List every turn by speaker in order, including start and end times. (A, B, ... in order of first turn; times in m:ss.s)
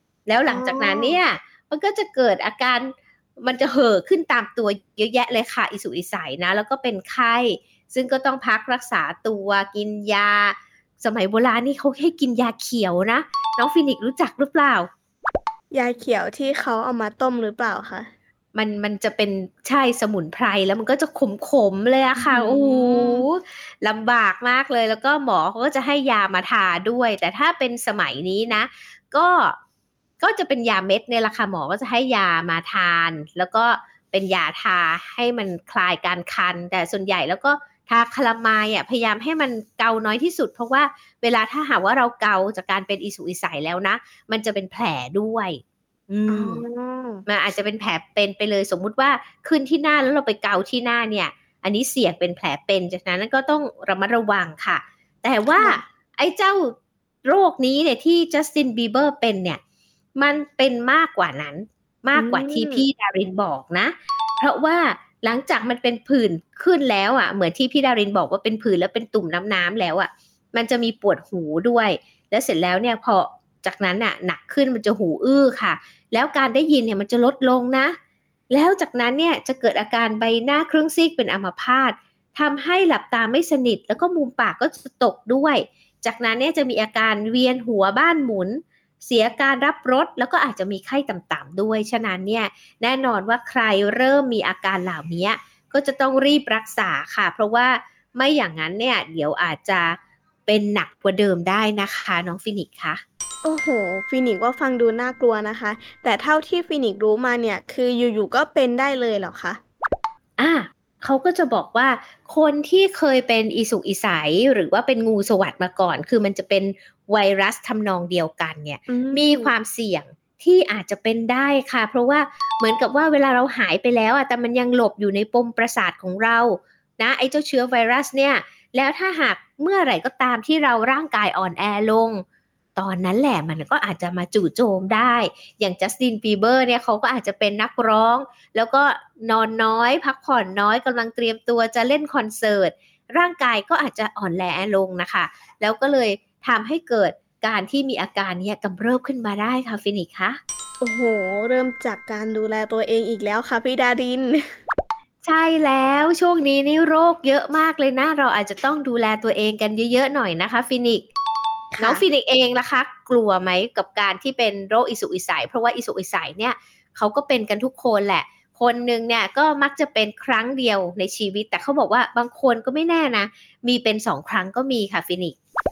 0:00.3-0:14.9 A
0:00.5-0:01.2 B
0:15.7-0:18.1 B
0:18.5-0:29.6 A
0:22.2-0:23.2 B
0:30.2-0:46.6 A
0:46.3-0:47.2 B
0:47.2-0:59.6 A
1:00.2-1:18.0 A
1:02.1-1:02.8 B
1:18.5-1:43.0 A
1:43.4-1:49.6 B
1:50.4-2:12.2 A
1:58.9-1:59.5 B
2:12.8-2:30.4 A
2:30.8-2:34.5 B
2:35.2-2:41.0 A
2:41.7-2:42.0 B
2:41.8-2:55.4 A